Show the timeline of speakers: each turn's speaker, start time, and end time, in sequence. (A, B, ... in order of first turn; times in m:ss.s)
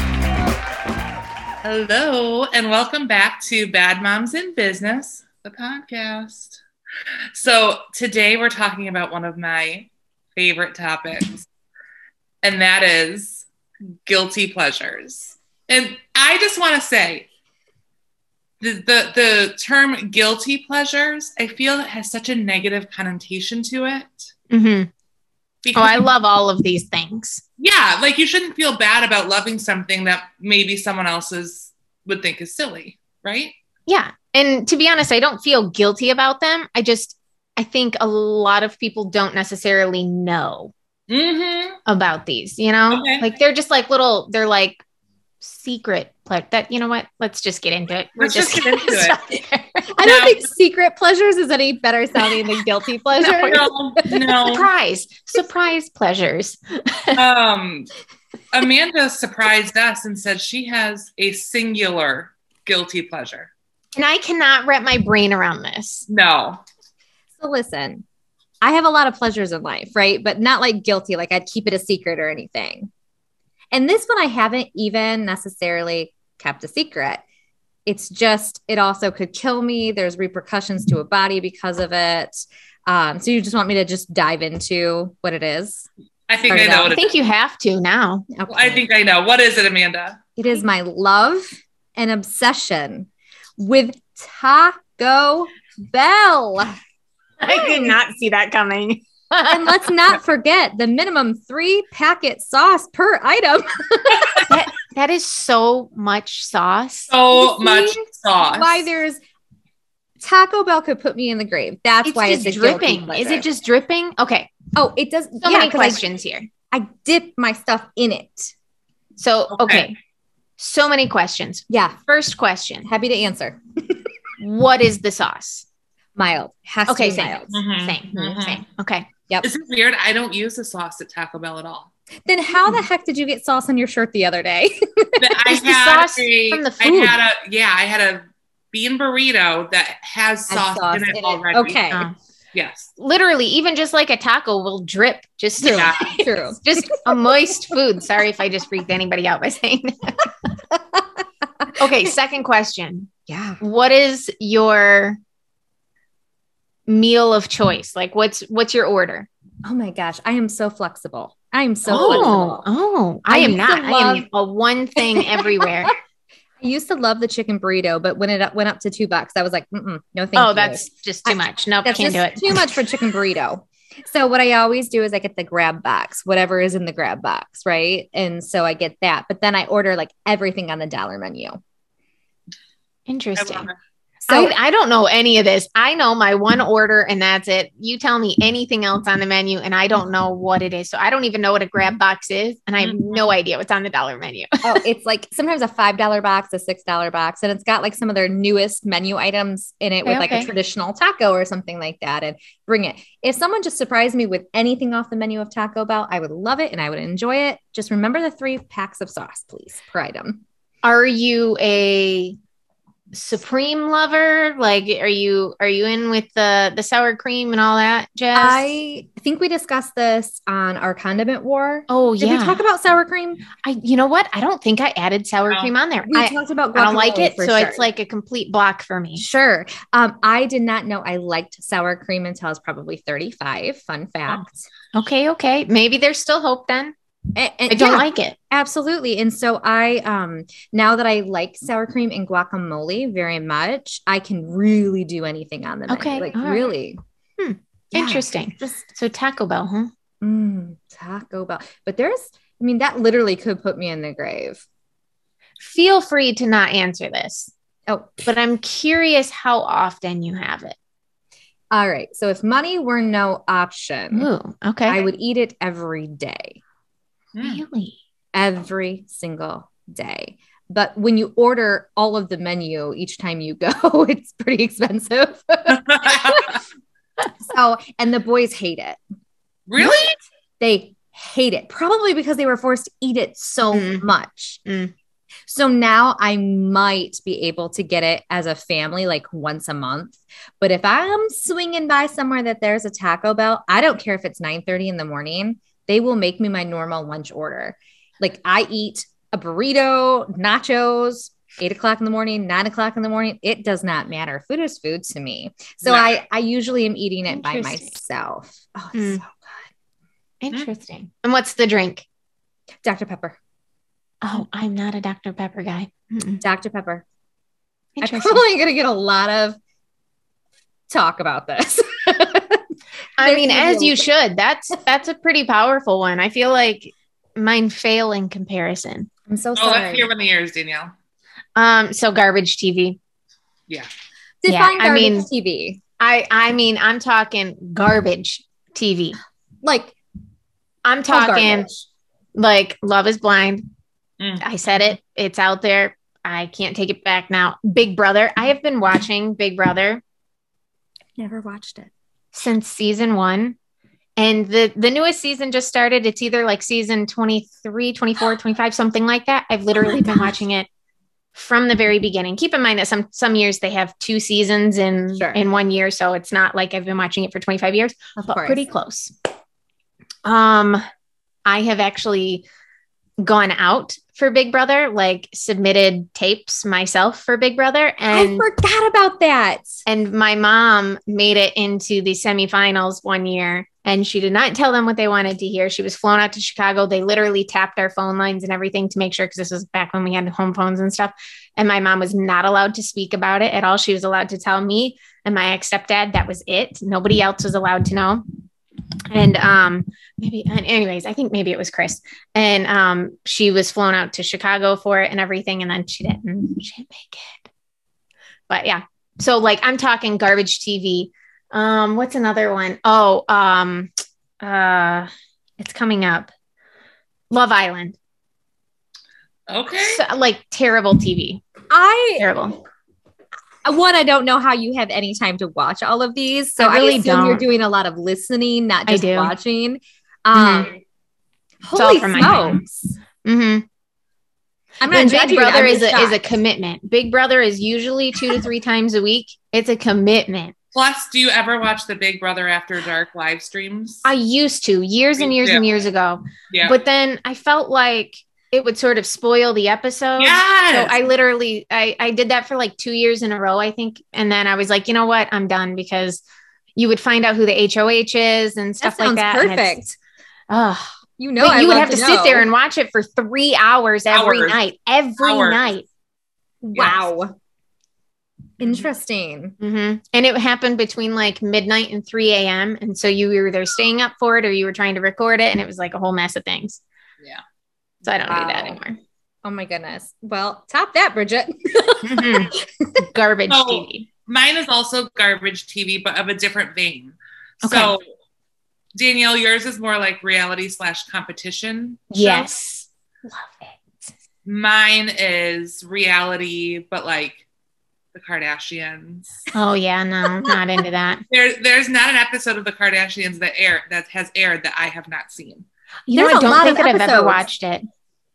0:01.6-0:06.6 A
0:07.3-0:11.5 A
0:12.4-0:13.4 A
0:14.0-0:17.3 A
0:18.6-0:24.3 A
0:24.5-0:24.9 B
0:25.6-0:26.1 A
0:25.8-0:27.4 B
0:27.6-0:33.6 A
0:33.9-0:40.7 B
0:41.1-0:41.8 A
0:41.9-0:44.8 B
0:42.9-0:43.2 A
0:45.4-0:49.9 B
0:48.2-0:49.2 A
0:49.9-0:54.2 C
0:50.0-0:50.5 A
0:53.2-0:53.6 B
0:53.2-0:54.7 A
0:54.4-0:57.2 B
0:57.1-0:57.9 A
0:58.5-1:03.5 A
1:04.0-1:06.1 B
1:06.1-1:06.6 A
1:07.4-1:08.0 C
1:08.6-1:12.9 C
1:13.7-1:17.2 C
1:17.9-1:25.9 C
1:26.3-1:27.1 A
1:26.5-1:27.0 C
1:26.9-1:28.3 B
1:28.3-1:28.8 C
1:28.5-1:30.2 A
1:30.4-1:36.8 C
1:37.4-1:39.8 B
1:37.5-1:38.0 C
1:39.5-1:44.5 C
1:44.5-1:47.1 B
1:47.1-1:48.9 A
1:47.3-1:49.2 C
1:50.2-1:53.4 C
1:52.0-1:54.6 B
1:54.8-1:56.0 C
1:55.4-1:56.5 B
1:56.7-1:58.5 C
1:59.2-2:00.0 B
1:59.5-1:59.9 A
2:00.6-2:02.9 B
2:01.7-2:02.0 C
2:02.8-2:04.0 C
2:04.4-2:05.7 B
2:06.2-2:07.6 C
2:06.9-2:09.1 B
2:07.5-2:08.6 A
2:09.4-2:11.9 A
2:12.3-2:15.3 C
2:15.2-2:21.8 A
2:15.5-2:17.2 B
2:20.5-2:22.1 C
2:22.5-2:22.9 A
2:23.0-2:30.3 B
2:25.6-2:27.2 C
2:25.7-2:26.2 A
2:30.7-2:31.0 C
2:31.6-2:32.1 C
2:31.8-2:35.2 B
2:33.3-2:33.6 C
2:36.9-2:39.3 B
2:39.6-2:42.7 C
2:41.9-2:45.9 B
2:43.3-2:44.2 C
2:45.0-2:46.0 C
2:46.6-3:01.6 C
2:50.4-2:53.1 B
3:03.1-3:03.7 B
3:03.4-3:03.8 A
3:04.3-3:04.5 C
3:04.3-3:14.8 B
3:14.6-3:30.4 C
3:20.0-3:20.5 B
3:30.8-3:32.4 B
3:33.1-3:38.8 B
3:38.3-3:43.4 C
3:41.9-3:42.6 B
3:43.6-3:49.2 B
3:46.1-3:47.8 C
3:49.2-3:54.7 C
3:54.9-3:56.9 B
3:57.4-4:07.0 C
3:57.7-3:58.4 B
4:05.9-4:06.7 B
4:07.4-4:09.9 B
4:07.9-4:08.9 C
4:10.2-4:14.6 C
4:15.6-4:17.5 B
4:17.9-4:18.2 C
4:18.3-4:20.8 B
4:21.7-4:24.3 C
4:24.1-4:25.1 B
4:24.9-4:26.6 C
4:27.4-4:27.6 A
4:27.4-4:28.0 B
4:28.3-4:36.6 C
4:35.7-4:36.6 A
4:37.4-4:39.0 C
4:39.7-4:40.2 A
4:40.6-4:44.6 C
4:43.7-4:44.0 B
4:44.6-4:44.9 B
4:45.5-5:09.6 C
5:05.8-5:06.2 A
5:07.3-5:07.9 B
5:09.0-5:09.2 B
5:10.4-5:12.0 B
5:12.8-5:13.4 C
5:14.2-5:16.4 B
5:16.4-5:17.0 C
5:18.0-5:18.4 B
5:18.0-5:19.6 C
5:20.9-5:22.6 C
5:23.2-5:29.1 B
5:23.2-5:24.0 C
5:29.3-5:30.1 C
5:29.6-5:30.9 A
5:31.6-5:33.0 B
5:34.4-5:35.8 C
5:34.5-5:35.3 B
5:36.0-5:39.2 B
5:39.6-5:40.0 C
5:40.8-5:41.7 B
5:41.1-5:41.8 C
5:42.4-5:43.7 B
5:44.2-5:44.4 A
5:44.4-5:50.0 B
5:51.2-5:51.9 C
5:52.3-5:53.6 B
5:54.2-6:00.7 B
6:01.3-6:09.1 B
6:05.1-6:05.4 C
6:08.2-6:08.6 C
6:10.2-6:10.8 B
6:11.4-6:12.4 B
6:13.2-6:18.5 B
6:18.1-6:19.8 C
6:19.9-6:38.2 B
6:39.1-6:47.5 B
6:48.5-6:53.9 B
6:54.4-6:56.3 B
6:57.3-6:58.0 B
6:59.5-7:00.0 A
6:59.7-7:01.4 B
7:01.7-7:02.3 C
7:02.2-7:02.6 B
7:03.6-7:10.8 C
7:06.6-7:07.4 B
7:08.9-7:09.3 B
7:10.3-7:10.7 B
7:11.6-7:12.9 C
7:11.8-7:12.6 B
7:13.2-7:13.7 B
7:14.8-7:16.4 C
7:14.9-7:20.5 B
7:20.8-7:24.1 A
7:24.0-7:36.2 B
7:25.2-7:25.7 A
7:26.5-7:26.8 A
7:30.2-7:31.0 A
7:36.8-7:39.8 B
7:38.8-7:40.0 C
7:40.5-7:45.8 B
7:41.2-7:42.5 C
7:44.1-7:44.6 A
7:45.2-7:45.7 A
7:46.6-7:47.3 C
7:46.7-7:47.1 B
7:48.6-7:49.6 C
7:49.6-7:56.8 B
7:58.0-7:59.0 B
7:58.2-7:58.7 A
7:59.4-8:03.1 C
8:02.0-8:04.1 B
8:03.5-8:08.0 A
8:07.6-8:08.0 B
8:09.0-8:12.4 A
8:12.1-8:14.1 B
8:14.5-8:17.4 A
8:18.1-8:19.5 A
8:19.5-8:21.2 B
8:21.3-8:25.7 A
8:26.1-8:27.8 B
8:26.1-8:27.4 C